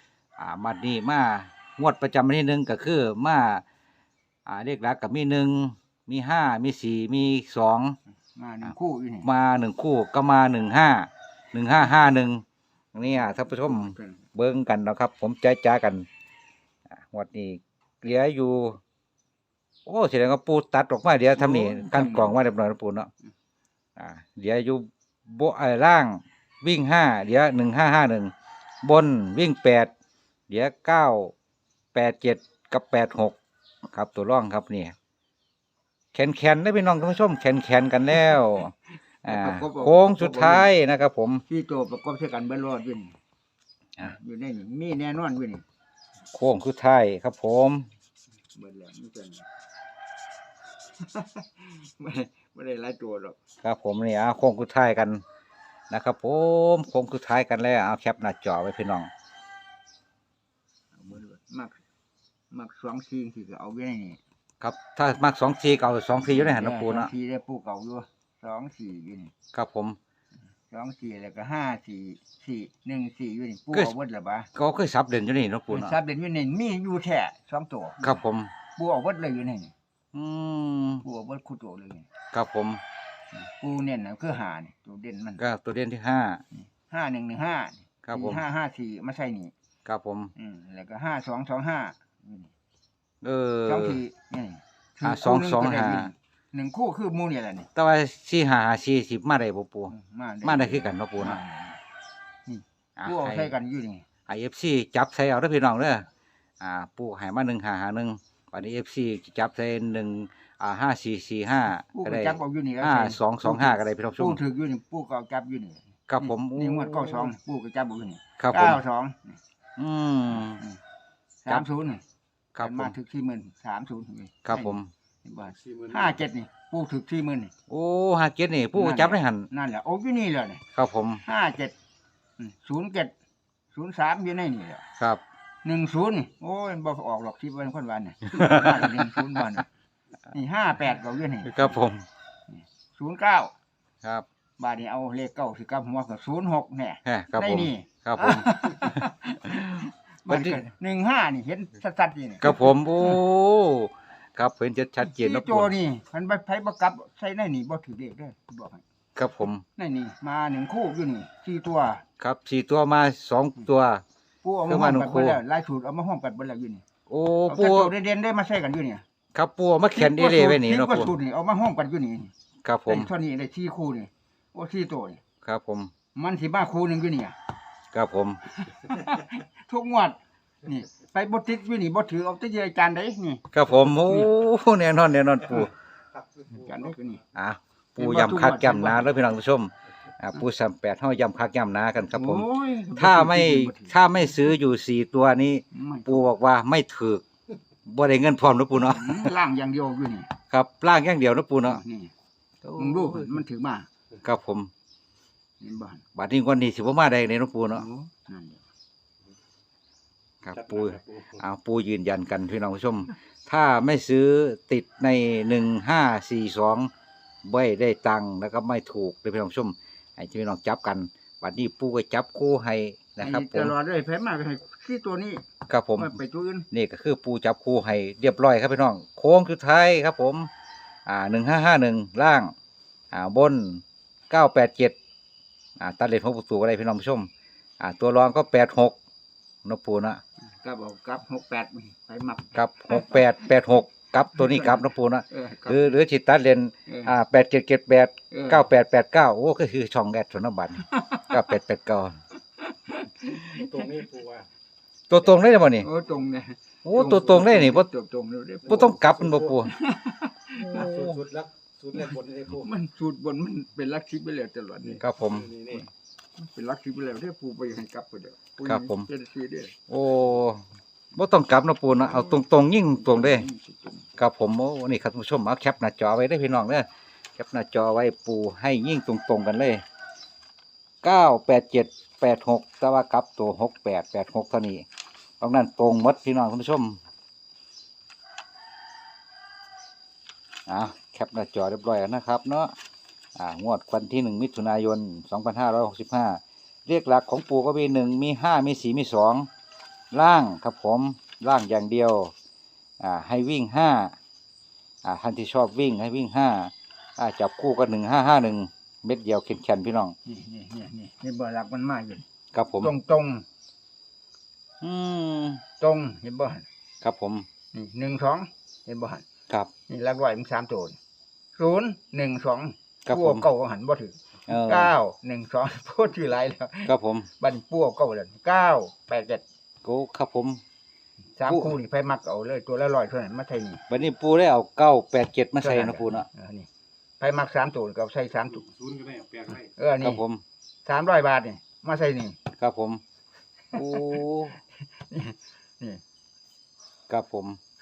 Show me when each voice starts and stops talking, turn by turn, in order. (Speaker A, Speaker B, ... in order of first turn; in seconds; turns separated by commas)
Speaker A: 0.4-3.6, Speaker A: 4.5-8.0, Speaker B: 8.3-9.3, Speaker A: 9.2-16.1, Speaker B: 13.0-14.2, Speaker A: 16.9-18.8, Speaker A: 19.9-23.1, Speaker B: 21.4-22.4, Speaker A: 24.0-28.3, Speaker A: 28.8-29.9, Speaker A: 30.5-31.3, Speaker A: 31.9-33.4, Speaker A: 33.9-34.9, Speaker A: 36.1-38.7, Speaker A: 39.2-41.4, Speaker B: 39.2-40.7, Speaker B: 41.5-43.1, Speaker B: 44.0-45.6, Speaker A: 46.3-47.9, Speaker B: 48.5-49.5, Speaker B: 51.0-53.4, Speaker A: 53.6-55.2, Speaker A: 55.9-59.1, Speaker B: 60.9-61.8, Speaker B: 62.5-64.2, Speaker A: 64.6-67.1, Speaker B: 66.3-69.3, Speaker A: 69.5-70.0, Speaker B: 70.7-74.5, Speaker A: 74.5-76.0, Speaker B: 75.7-78.2, Speaker A: 78.0-78.5, Speaker B: 78.8-79.7, Speaker A: 80.1-81.0, Speaker B: 81.0-82.1, Speaker A: 82.3-82.8, Speaker B: 83.3-85.4, Speaker A: 85.4-86.4, Speaker B: 86.7-89.5, Speaker A: 88.0-88.4, Speaker A: 89.8-90.3, Speaker B: 90.3-92.5, Speaker A: 93.2-94.0, Speaker B: 93.6-97.7, Speaker A: 95.0-96.1, Speaker A: 97.7-99.9, Speaker B: 99.9-101.8, Speaker A: 100.4-101.4, Speaker B: 102.5-104.0, Speaker A: 103.0-103.5, Speaker A: 104.2-106.0, Speaker A: 106.6-114.4, Speaker B: 111.9-119.4, Speaker A: 116.1-117.3, Speaker A: 118.4-118.8, Speaker A: 119.8-120.6, Speaker B: 120.4-120.8, Speaker B: 121.4-122.0, Speaker A: 122.5-122.9, Speaker B: 122.6-127.5, Speaker A: 124.4-124.9, Speaker A: 127.7-129.5, Speaker B: 128.7-130.6, Speaker A: 130.7-131.2, Speaker B: 131.2-131.7, Speaker B: 132.4-133.1, Speaker B: 133.7-134.8, Speaker B: 135.6-139.7, Speaker A: 138.4-138.7, Speaker B: 140.3-141.8, Speaker A: 141.4-142.0, Speaker B: 142.5-143.5, Speaker B: 144.6-153.2, Speaker A: 147.0-150.6, Speaker A: 152.4-155.7, Speaker B: 155.0-158.8, Speaker A: 159.2-159.6, Speaker B: 159.8-162.0, Speaker A: 162.2-164.0, Speaker B: 164.4-166.8, Speaker A: 164.7-165.4, Speaker A: 167.1-167.9, Speaker B: 167.5-169.0, Speaker A: 169.3-171.1, Speaker B: 169.9-172.3, Speaker A: 172.6-173.1, Speaker B: 172.9-175.2, Speaker A: 175.4-175.9, Speaker B: 176.1-177.3, Speaker A: 177.9-178.4, Speaker B: 178.6-184.3, Speaker A: 183.5-185.7, Speaker B: 186.5-187.2, Speaker A: 187.3-197.2, Speaker B: 188.0-189.1, Speaker B: 192.1-194.0, Speaker B: 195.7-196.3, Speaker A: 197.8-199.3, Speaker B: 198.8-200.3, Speaker A: 200.5-201.8, Speaker B: 201.7-202.1, Speaker A: 202.6-203.4, Speaker B: 202.8-203.9, Speaker A: 204.2-204.7, Speaker B: 205.6-206.0, Speaker A: 206.1-207.8, Speaker B: 207.7-208.6, Speaker A: 210.4-216.9, Speaker A: 217.4-223.7, Speaker B: 223.2-225.4, Speaker A: 225.7-226.2, Speaker B: 225.9-226.7, Speaker A: 226.7-230.5, Speaker A: 231.1-232.5, Speaker A: 233.1-235.0, Speaker A: 235.8-238.9, Speaker A: 239.6-240.2, Speaker B: 240.6-243.2, Speaker A: 242.5-252.2, Speaker B: 244.3-245.9, Speaker B: 246.9-247.1, Speaker B: 248.3-248.7, Speaker B: 250.9-251.3, Speaker B: 252.7-254.0, Speaker C: 253.6-254.4, Speaker A: 255.1-255.9, Speaker B: 255.8-260.9, Speaker A: 256.8-257.9, Speaker A: 258.6-259.7, Speaker A: 260.6-261.3, Speaker C: 261.0-262.5, Speaker B: 261.9-265.0, Speaker A: 265.0-265.6, Speaker B: 265.6-269.7, Speaker A: 268.6-269.1, Speaker A: 269.9-270.6, Speaker A: 271.1-273.4, Speaker B: 272.0-272.4, Speaker B: 273.0-274.1, Speaker A: 274.2-279.8, Speaker A: 281.0-284.8, Speaker A: 285.4-287.0, Speaker A: 290.7-292.7, Speaker A: 293.4-299.5, Speaker A: 300.1-302.3, Speaker A: 303.0-304.1, Speaker A: 305.0-310.1, Speaker B: 310.2-312.2, Speaker A: 312.5-312.9, Speaker B: 312.8-313.4, Speaker A: 314.8-315.6, Speaker B: 315.8-316.6, Speaker A: 317.0-317.4, Speaker B: 317.7-319.2, Speaker B: 319.9-321.0, Speaker B: 321.6-329.4, Speaker A: 323.1-323.4, Speaker A: 324.5-324.9, Speaker A: 326.9-327.3, Speaker A: 329.8-330.6, Speaker B: 331.4-333.8, Speaker A: 331.5-331.7, Speaker A: 333.9-336.2, Speaker B: 335.6-336.7, Speaker B: 337.2-338.6, Speaker C: 338.9-339.6, Speaker B: 339.6-340.2, Speaker A: 340.0-340.4, Speaker B: 340.8-342.4, Speaker A: 342.6-343.0, Speaker A: 343.7-344.6, Speaker B: 343.7-344.2, Speaker B: 345.1-346.0, Speaker A: 347.1-347.6